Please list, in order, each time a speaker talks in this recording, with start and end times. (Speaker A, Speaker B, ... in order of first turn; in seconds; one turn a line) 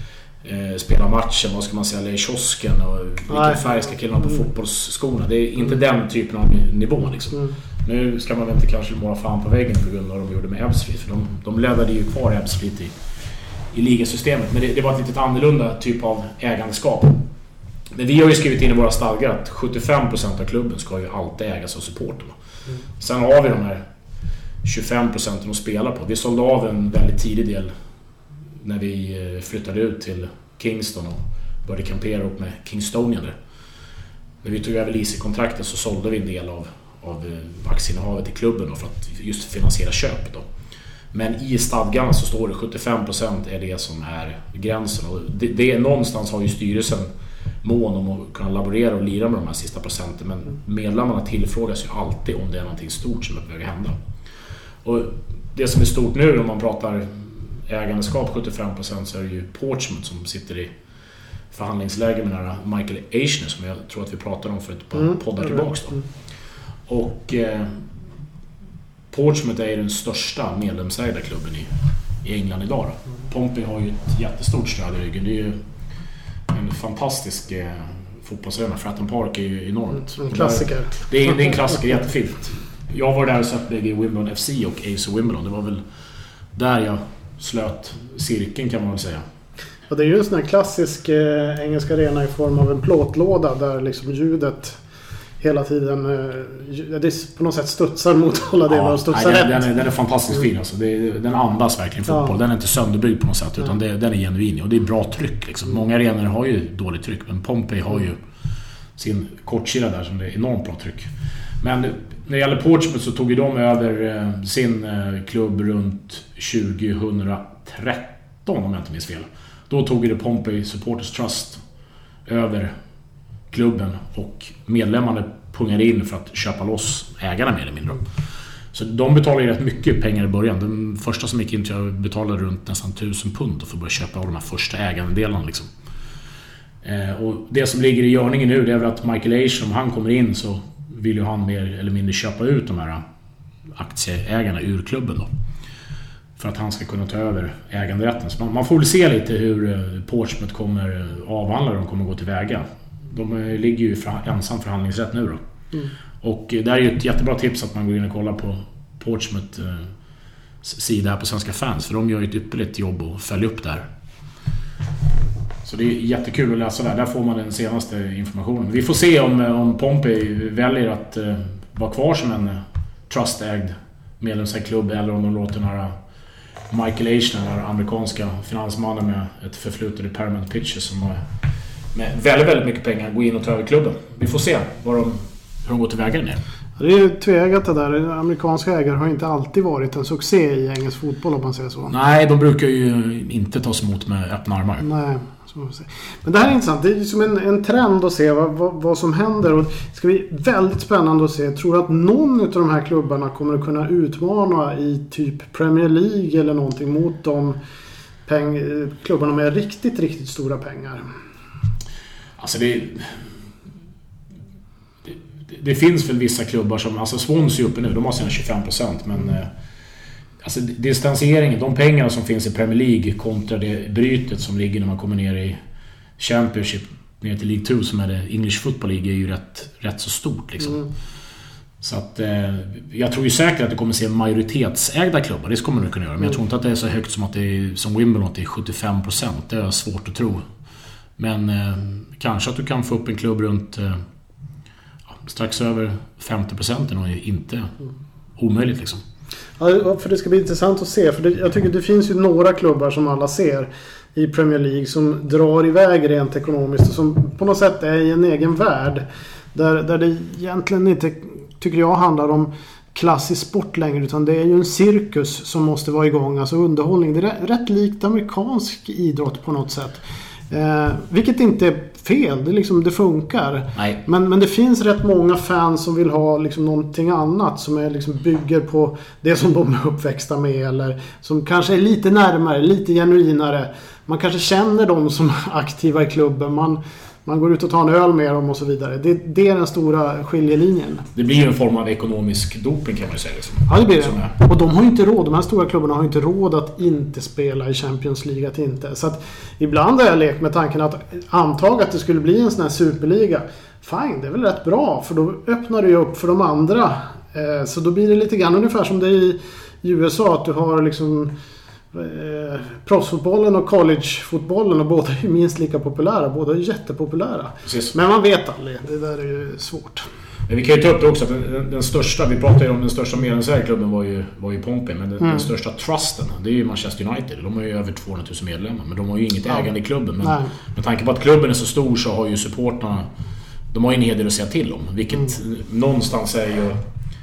Speaker A: 0.4-12.9
Speaker A: 13.7-17.2
Speaker A: 17.9-22.4
Speaker A: 23.0-23.8
Speaker A: 24.6-27.7
Speaker A: 28.6-33.3
Speaker A: 34.4-40.4
Speaker A: 41.1-47.1
Speaker A: 47.6-54.0
Speaker A: 54.8-60.7
Speaker A: 61.5-66.0
Speaker B: 65.5-66.0
Speaker A: 66.9-67.8
Speaker A: 69.1-71.7
Speaker A: 72.2-75.6
Speaker A: 76.5-85.8
Speaker B: 80.2-80.9
Speaker A: 86.5-89.2
Speaker B: 89.9-94.8
Speaker B: 95.4-99.6
Speaker A: 98.7-108.2
Speaker A: 109.0-121.6
Speaker A: 122.3-122.7
Speaker A: 123.5-128.0
Speaker A: 128.7-135.7
Speaker A: 136.8-143.0
Speaker A: 143.7-145.3
Speaker A: 146.4-155.4
Speaker A: 156.2-159.9
Speaker A: 160.6-163.9
Speaker A: 165.6-175.9
Speaker A: 176.7-181.2
Speaker A: 181.9-186.4
Speaker B: 186.8-191.9
Speaker A: 191.9-194.8
Speaker B: 194.8-207.6
Speaker B: 208.3-211.1
Speaker A: 212.4-213.2
Speaker A: 215.1-219.5
Speaker A: 220.4-225.6
Speaker A: 226.2-230.8
Speaker A: 231.8-240.4
Speaker A: 241.2-244.0
Speaker A: 245.2-247.7
Speaker A: 248.4-249.0
Speaker B: 249.6-291.1
Speaker A: 291.1-294.3
Speaker B: 293.7-311.3
Speaker B: 311.9-320.1
Speaker A: 317.6-317.9
Speaker A: 320.5-333.1
Speaker B: 325.2-325.5
Speaker B: 330.2-330.5
Speaker A: 333.7-336.8